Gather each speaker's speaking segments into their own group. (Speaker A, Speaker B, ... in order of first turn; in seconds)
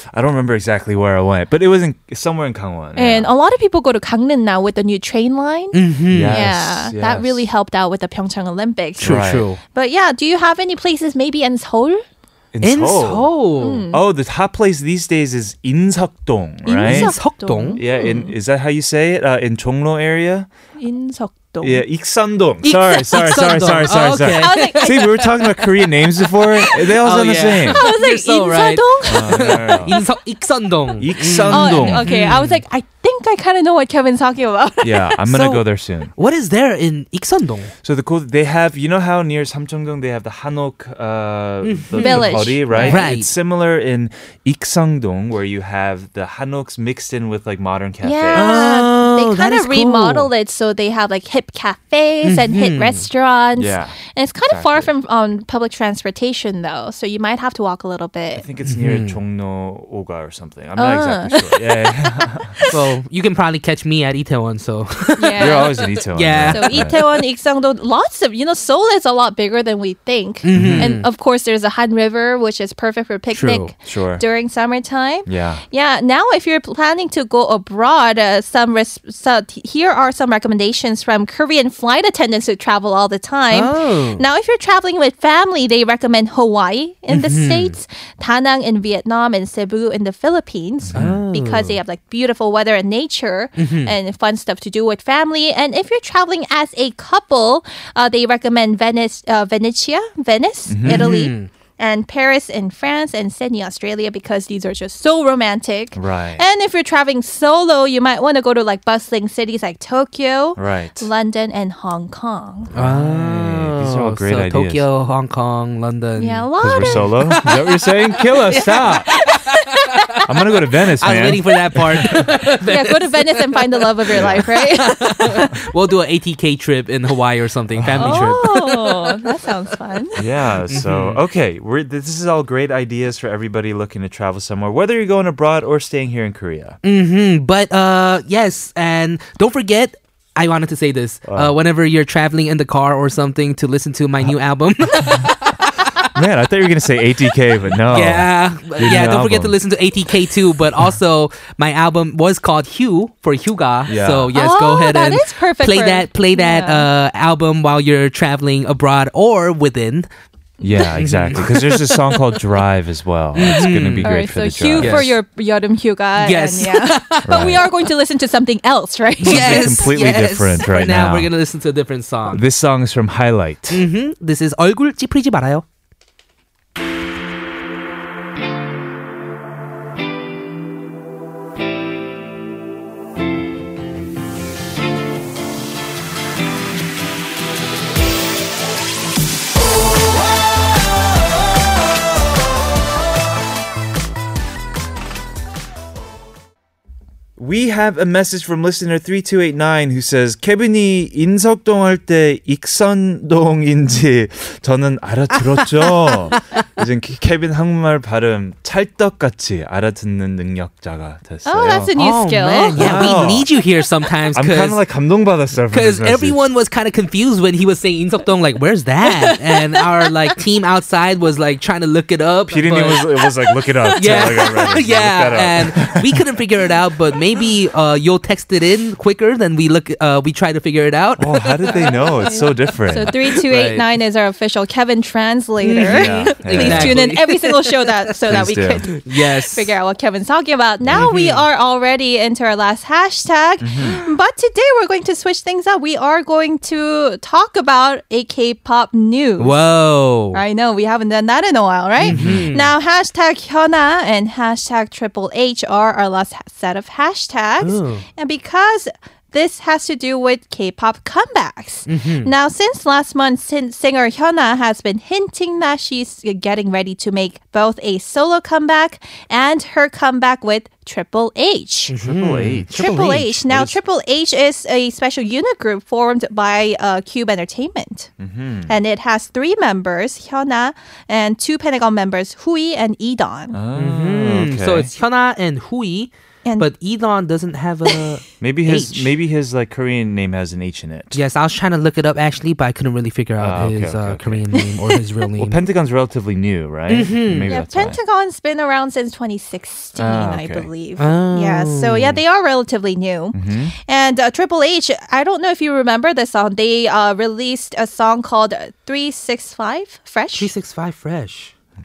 Speaker A: 0.1-3.3, 6.1-7.5, 9.0-9.5, 12.5-13.3, 13.9-17.1, 17.8-20.5, 21.6-27.8, 29.1-29.9, 31.0-32.1, 34.8-36.1, 37.8-48.6, 53.6-54.0, 54.5-54.9, 58.4-62.5, 65.4-67.0, 70.5-70.9, 73.8-74.2, 75.2-75.6, 90.8-91.2, 100.7-101.0, 105.9-106.4, 110.5-111.1, 112.7-114.8, 116.6-119.1, 120.2-122.2, 124.1-124.5, 127.7-128.3, 130.2-136.8, 141.2-141.5, 146.1-149.6, 153.9-154.3, 160.6-165.1, 167.2-167.6, 169.2-171.3, 172.3-173.8, 197.4-211.9, 212.7-213.5, 214.3-216.4, 222.5-226.2, 231.2-233.8, 235.8-237.0, 238.3-238.8, 240.8-241.1, 243.6-244.0, 252.1-252.5, 272.0-273.8, 278.2-278.7, 283.5-284.9, 288.4-291.2, 293.4-294.5, 295.4-298.0, 299.9-300.7, 303.3-303.7
Speaker B: 3.0-5.8, 6.3-9.1, 9.7-12.0, 13.6-14.0, 16.6-18.3, 20.8-21.8, 24.4-25.4, 26.6-26.9, 27.7-30.1, 31.5-35.2, 42.0-43.0, 48.0-58.4, 60.8-62.8, 65.2-65.7, 66.5-112.7, 116.2-117.1, 119.1-120.2, 122.7-125.5, 128.0-130.2, 154.3-156.8, 163.6-169.9, 211.4-213.2, 219.2-219.8, 231.7-249.6, 250.3-271.9, 272.7-278.1, 278.7-283.6, 294.6-295.0, 297.5-310.5
Speaker C: 5.7-6.5, 9.0-9.6, 12.6-13.8, 16.8-17.8, 22.6-25.1, 27.0-32.6, 35.3-35.6, 36.1-37.7, 41.6-43.3, 48.3-50.3, 52.2-53.0, 58.6-59.1, 62.7-67.1, 70.4-71.1, 73.3-73.7, 83.5-84.2, 87.1-87.7, 90.9-91.8, 93.6-93.9, 100.8-101.5, 112.7-120.2, 121.0-129.2, 130.7-131.2, 136.8-146.1, 147.8-160.1, 161.0-162.4, 163.3-164.1, 164.8-165.2, 166.2-167.6, 169.2-172.4, 173.7-175.6, 211.9-214.8, 215.7-223.2, 223.9-232.0, 235.6-239.7, 240.9-241.4, 249.4-250.4, 252.0-252.7, 257.6-258.0, 261.9-262.3, 271.9-273.1, 283.8-289.1, 291.1-295.6, 296.9-297.5, 301.0-302.2, 310.3-311.5